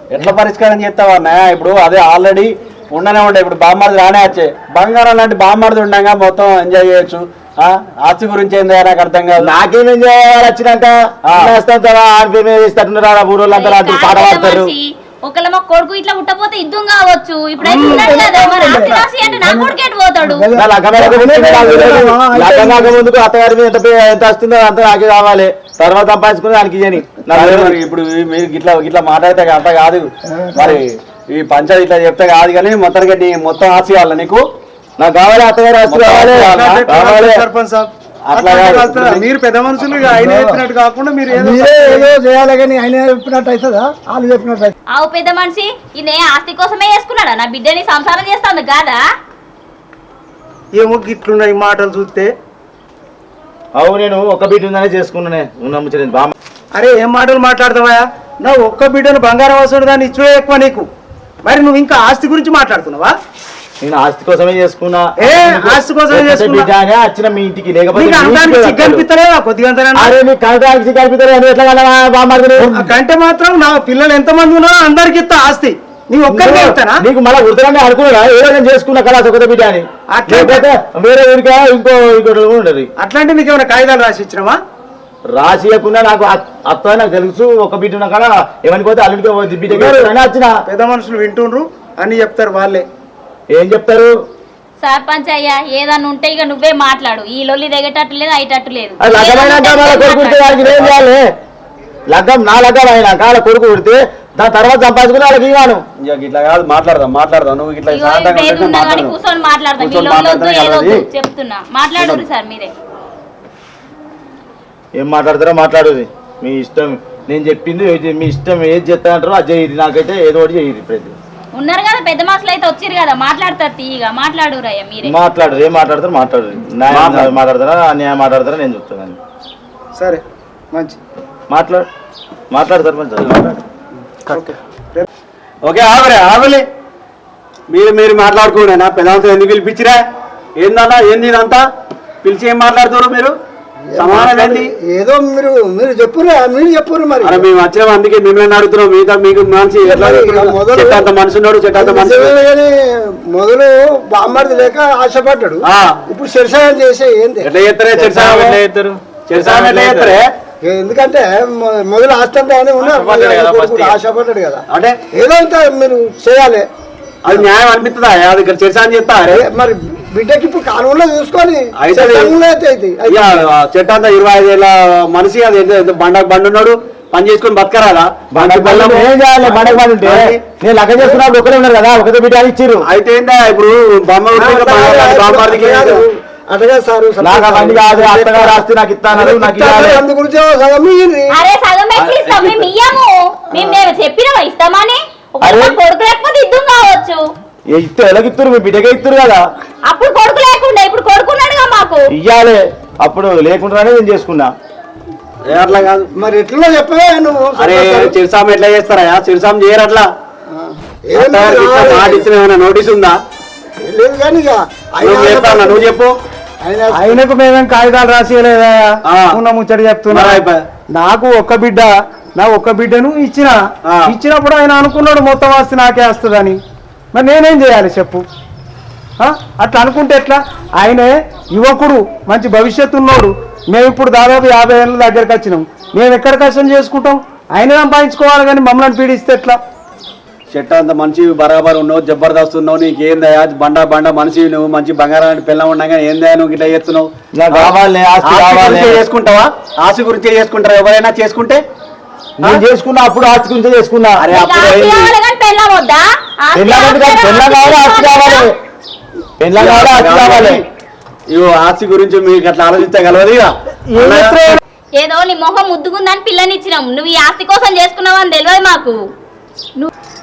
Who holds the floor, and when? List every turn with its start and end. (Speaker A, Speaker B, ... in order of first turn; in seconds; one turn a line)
Speaker A: 0.1-9.5
Speaker B: 9.4-14.7
Speaker A: 11.3-11.6
Speaker C: 13.5-20.5
Speaker D: 17.6-23.0
Speaker B: 20.5-27.7
Speaker A: 21.6-21.8
Speaker A: 27.3-34.4
Speaker D: 30.3-30.8
Speaker B: 35.0-37.4
Speaker A: 35.9-36.6
Speaker E: 36.3-42.1
Speaker A: 38.2-39.2
Speaker D: 40.0-40.6
Speaker D: 41.3-44.7
Speaker C: 44.9-49.0
Speaker E: 50.8-52.3
Speaker B: 53.8-56.3
Speaker E: 56.7-60.9
Speaker E: 61.4-63.1
Speaker B: 63.8-69.0
Speaker E: 65.2-66.7
Speaker E: 67.9-70.1
Speaker B: 70.0-72.9
Speaker E: 72.6-77.0
Speaker B: 76.3-82.9
Speaker E: 80.1-80.6
Speaker E: 83.0-84.6
Speaker B: 85.3-90.5
Speaker E: 89.7-90.1
Speaker E: 90.7-92.8
Speaker B: 93.5-94.1
Speaker C: 94.8-101.0
Speaker B: 99.0-101.3
Speaker B: 102.1-105.8
Speaker A: 106.0-109.1
Speaker C: 107.9-112.7
Speaker A: 109.8-111.0
Speaker B: 114.9-121.2
Speaker C: 121.5-125.1
Speaker B: 125.0-129.2
Speaker A: 126.9-127.3
Speaker E: 130.0-131.0
Speaker B: 131.5-131.9
Speaker B: 132.5-133.6
Speaker E: 134.3-135.1
Speaker A: 135.6-136.7
Speaker A: 137.7-140.0
Speaker A: 140.6-141.6
Speaker A: 142.2-143.3
Speaker D: 143.9-147.4
Speaker A: 144.0-144.7
Speaker A: 147.2-152.3
Speaker D: 149.8-151.0
Speaker D: 151.8-157.5
Speaker A: 155.6-156.0
Speaker A: 157.4-158.6
Speaker B: 157.9-158.9
Speaker A: 159.3-160.3
Speaker D: 160.6-166.7
Speaker A: 162.8-163.9
Speaker A: 164.7-165.0
Speaker A: 167.2-169.4
Speaker D: 169.3-173.4
Speaker A: 171.8-172.3
Speaker A: 173.1-180.4
Speaker B: 178.3-182.8
Speaker A: 182.8-186.0
Speaker D: 184.3-188.6
Speaker B: 187.2-190.0
Speaker D: 189.1-191.3
Speaker C: 191.3-197.2
Speaker A: 192.0-192.7
Speaker B: 195.4-195.8
Speaker B: 197.7-199.4
Speaker C: 199.9-202.1
Speaker B: 202.1-204.5
Speaker A: 205.5-206.1
Speaker D: 206.1-208.1
Speaker A: 207.6-210.1
Speaker D: 210.5-212.2
Speaker A: 211.1-213.2
Speaker D: 213.8-215.8
Speaker A: 215.0-216.1
Speaker D: 216.6-217.2
Speaker E: 216.9-220.4
Speaker A: 220.1-220.6
Speaker E: 220.9-226.6
Speaker E: 227.1-228.2
Speaker E: 229.2-239.6
Speaker A: 240.5-251.6
Speaker B: 247.3-249.0
Speaker B: 252.4-254.2
Speaker A: 254.2-255.1
Speaker C: 254.3-258.5
Speaker B: 256.5-258.5
Speaker B: 259.4-260.6
Speaker A: 259.5-260.6
Speaker A: 261.3-264.4
Speaker C: 265.0-269.0